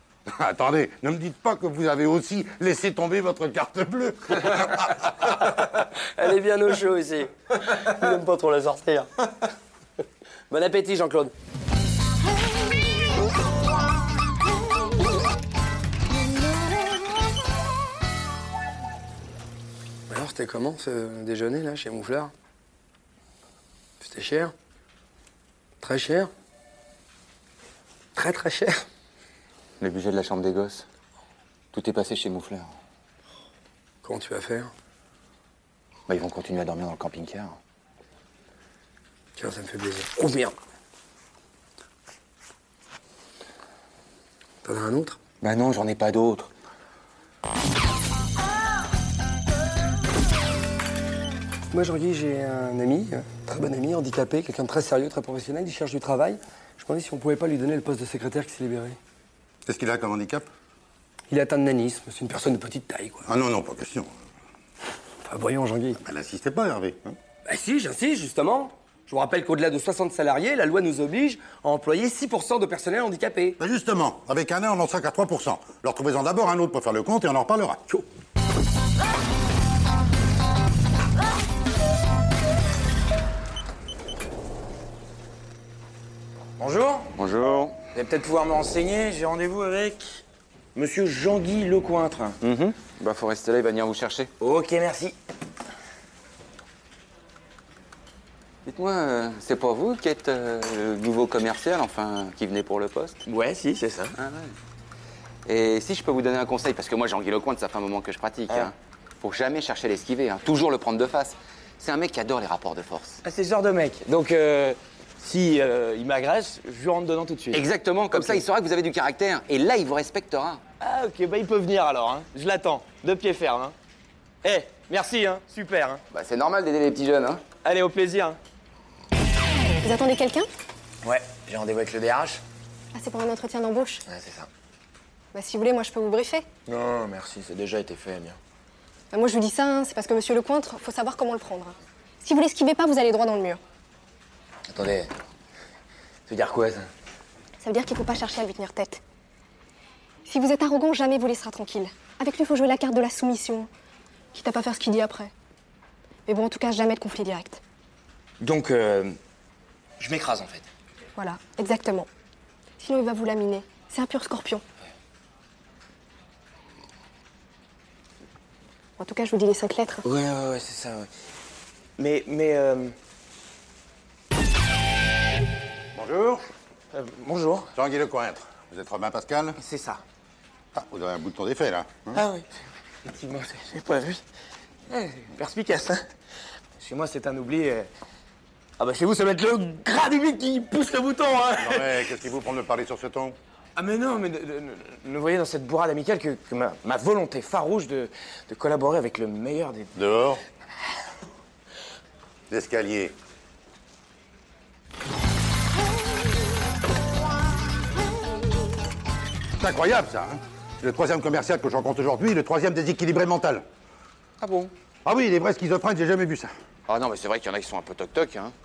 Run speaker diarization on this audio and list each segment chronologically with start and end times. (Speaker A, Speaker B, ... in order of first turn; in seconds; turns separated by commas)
Speaker A: 0.3-5.0, Speaker B: 5.5-9.5, Speaker B: 10.5-11.3, Speaker B: 20.1-22.3, Speaker B: 24.0-24.5, Speaker B: 25.8-26.3, Speaker B: 28.2-28.8, Speaker C: 29.8-30.9, Speaker C: 31.7-32.7, Speaker B: 34.0-34.7, Speaker C: 36.1-37.6, Speaker B: 39.4-40.5, Speaker B: 44.6-45.2, Speaker C: 45.4-46.5, Speaker B: 51.7-59.0, Speaker A: 59.7-60.5, Speaker B: 61.3-63.2, Speaker A: 63.3-64.1, Speaker B: 65.2-66.0, Speaker A: 66.0-67.1, Speaker B: 67.5-73.6, Speaker A: 73.6-77.9, Speaker D: 86.6-87.2, Speaker C: 87.2-87.8, Speaker D: 87.9-90.2, Speaker D: 90.8-92.4, Speaker C: 92.4-94.3, Speaker D: 94.4-95.2, Speaker C: 98.7-103.2, Speaker D: 103.3-104.2, Speaker C: 104.2-104.6, Speaker C: 105.5-113.2, Speaker D: 113.2-118.4, Speaker C: 117.5-120.6, Speaker D: 120.8-123.7, Speaker D: 124.4-126.0, Speaker C: 126.1-127.5, Speaker D: 127.6-128.4, Speaker E: 129.8-130.5, Speaker D: 131.0-132.4, Speaker E: 132.9-134.0, Speaker D: 134.1-134.5, Speaker E: 135.3-136.4, Speaker D: 136.7-138.4, Speaker E: 139.1-143.6, Speaker D: 144.7-145.1, Speaker D: 146.3-146.9, Speaker E: 147.6-149.0, Speaker E: 150.3-153.7, Speaker E: 154.3-155.3, Speaker E: 156.3-157.6, Speaker D: 158.4-159.2, Speaker D: 160.0-160.7, Speaker E: 161.2-162.1, Speaker E: 162.8-164.6, Speaker E: 169.0-170.0, Speaker D: 170.0-171.1, Speaker D: 172.0-172.9, Speaker A: 175.9-176.5, Speaker D: 176.9-177.7, Speaker A: 177.8-179.6, Speaker D: 179.6-180.0, Speaker A: 180.7-182.2, Speaker D: 182.1-182.5, Speaker D: 183.0-184.2, Speaker D: 184.9-186.1, Speaker D: 186.8-187.9, Speaker D: 188.8-192.0, Speaker A: 191.6-193.4, Speaker D: 193.8-199.9, Speaker A: 199.9-200.4, Speaker A: 202.5-203.2, Speaker A: 209.6-213.6, Speaker C: 214.4-214.7, Speaker A: 215.1-216.5, Speaker C: 216.9-218.5